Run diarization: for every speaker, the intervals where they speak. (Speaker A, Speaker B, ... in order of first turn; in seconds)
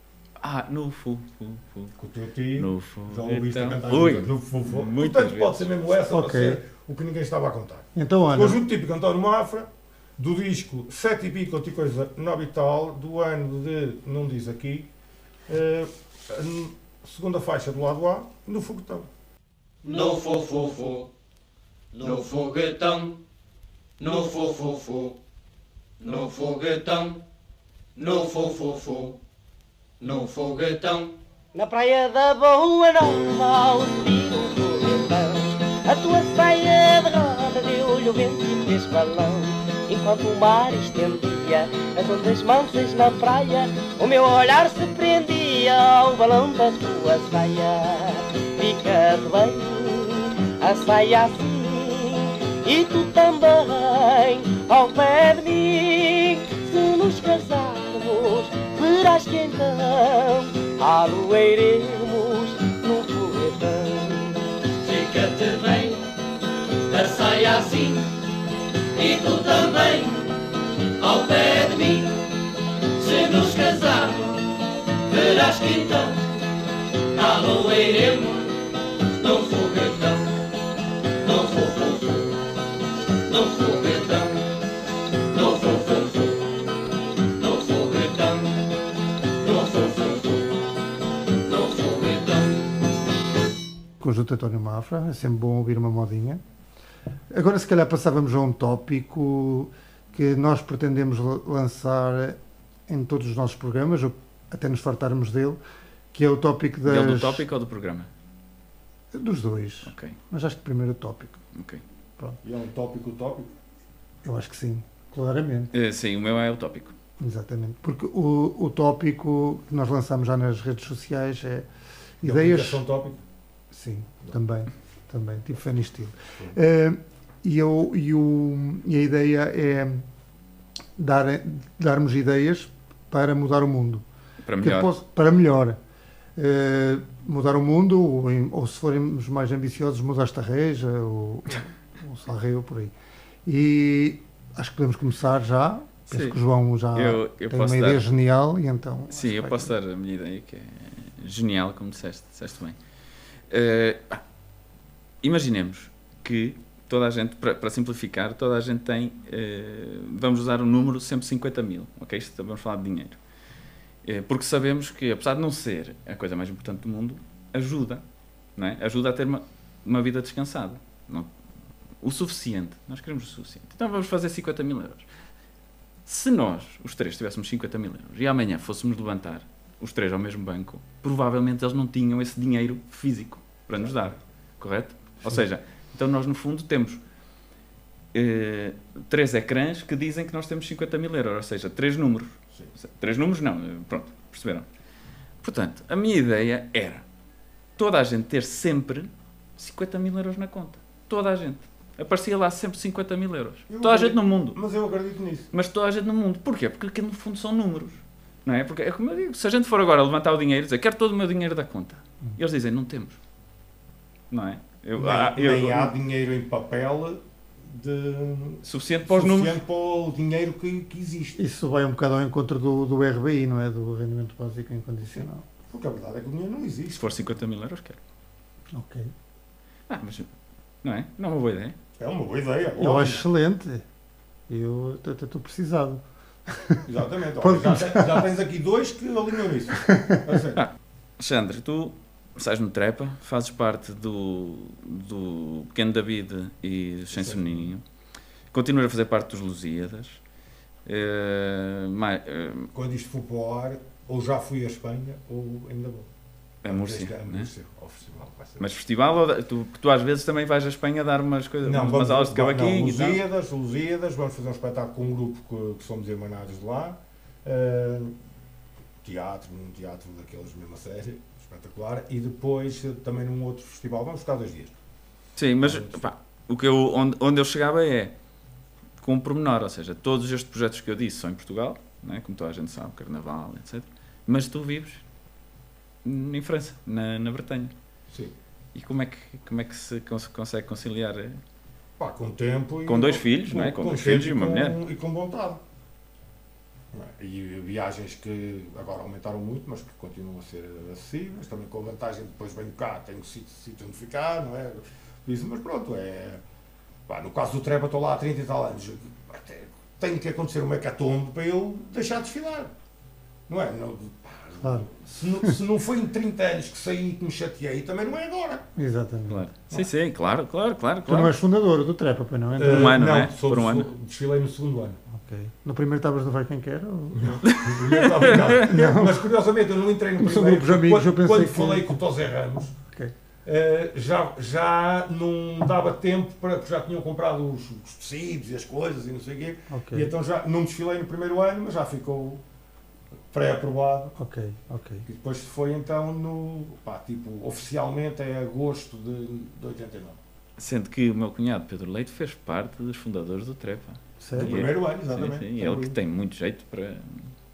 Speaker A: 0.4-1.9, 2.5-5.7, 106.8-108.1, 109.8-110.2, 111.5-111.8, 115.7-116.9, 134.4-134.9, 146.1-146.4, 146.9-148.0, 149.1-152.8, 153.5-154.2, 155.2-163.2, 164.1-168.0, 168.6-171.3, 172.0-175.1, 176.1-187.0, 188.1-194.7, 195.4-197.1, 197.8-204.6, 205.5-213.2, 214.3-215.9, 218.6-219.6, 226.9-228.0, 229.9-230.3, 230.8-231.8, 240.6-247.8, 248.5-250.2, 250.9-252.7, 256.6-257.5, 258.6-263.2, 275.4-278.1, 279.0-285.0, 286.0-287.7, 288.7-291.4, 292.9-294.8, 319.3-321.3, 322.6-323.9, 327.4-328.6, 350.6-357.3
Speaker B: 2.0-14.9, 15.5-19.1, 112.4-113.5, 122.2-123.2, 183.8-184.1, 203.7-205.5, 215.0-221.4, 225.7-227.2, 232.0-233.2, 236.8-240.6, 247.1-247.7, 252.7-256.1, 256.7-258.7, 261.6-268.1, 269.0-274.7, 275.6-276.0, 292.0-295.6, 296.9-306.4, 307.1-312.7, 313.5-318.7, 322.6-325.0, 327.1-332.8, 333.4-342.4, 343.3-344.2, 345.1-350.2, 354.3-356.0
Speaker C: 6.1-6.6, 8.0-8.6, 94.0-96.4, 97.3-105.6, 106.1-107.5, 109.1-111.4, 114.2-115.7, 117.2-121.7, 122.2-122.8, 123.7-130.1, 131.0-134.1, 134.6-135.8, 136.4-142.9, 143.4-149.7, 221.4-225.4, 228.7-229.1, 232.8-233.8, 234.5-236.9, 237.4-238.3, 239.9-240.2, 314.6-314.9, 318.8-319.4, 321.1-323.0, 325.1-327.4, 328.3-329.3, 330.2-332.0, 332.9-333.1, 339.7-340.1, 344.2-345.1, 354.2-354.7
Speaker D: 19.9-21.1, 22.0-23.2, 24.0-25.2, 26.0-27.2, 28.0-29.2, 30.0-31.1, 64.8-66.0, 66.9-68.1, 69.0-70.3, 71.0-72.1, 73.0-74.5, 75.1-76.2, 77.1-78.5, 79.1-80.3, 81.2-82.3, 83.3-84.4, 85.3-86.4, 87.4-88.6, 89.4-90.5, 91.4-92.7
Speaker E: 31.6-64.5